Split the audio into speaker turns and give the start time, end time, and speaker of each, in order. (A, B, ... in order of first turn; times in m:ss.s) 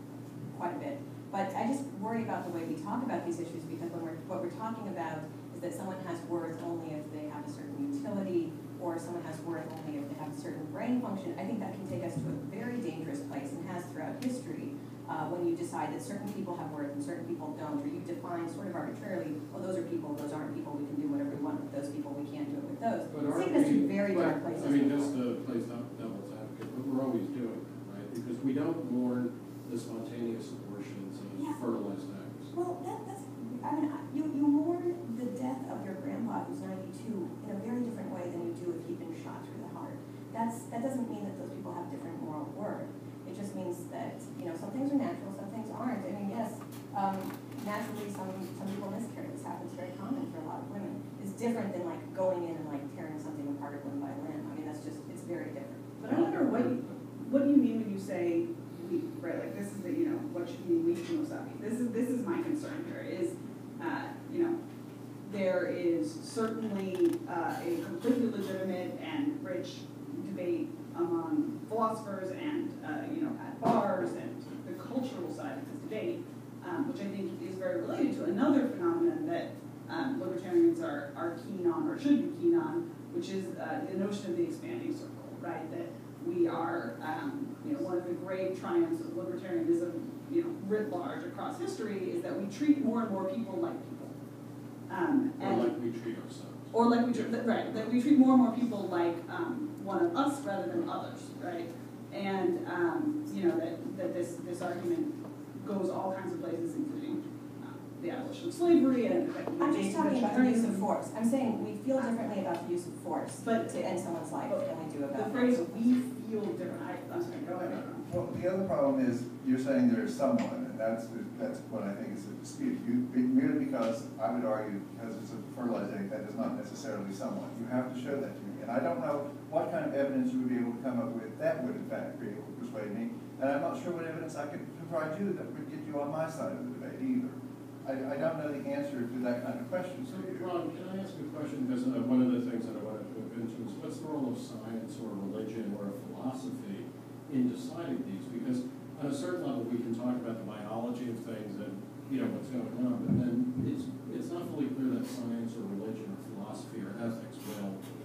0:00.4-0:25.2 A
0:23.1-0:32.5 B
0:32.5-0:56.0 A
0:56.0-1:04.6 C
0:56.1-0:56.9 B
1:05.2-1:34.1 C
1:34.9-1:35.7 C
1:35.4-1:36.7 B
1:36.7-1:50.9 C
1:49.6-1:55.8 A
1:53.4-1:53.7 C
1:55.1-1:58.0 C
1:58.0-2:20.5 D
2:20.1-2:37.8 B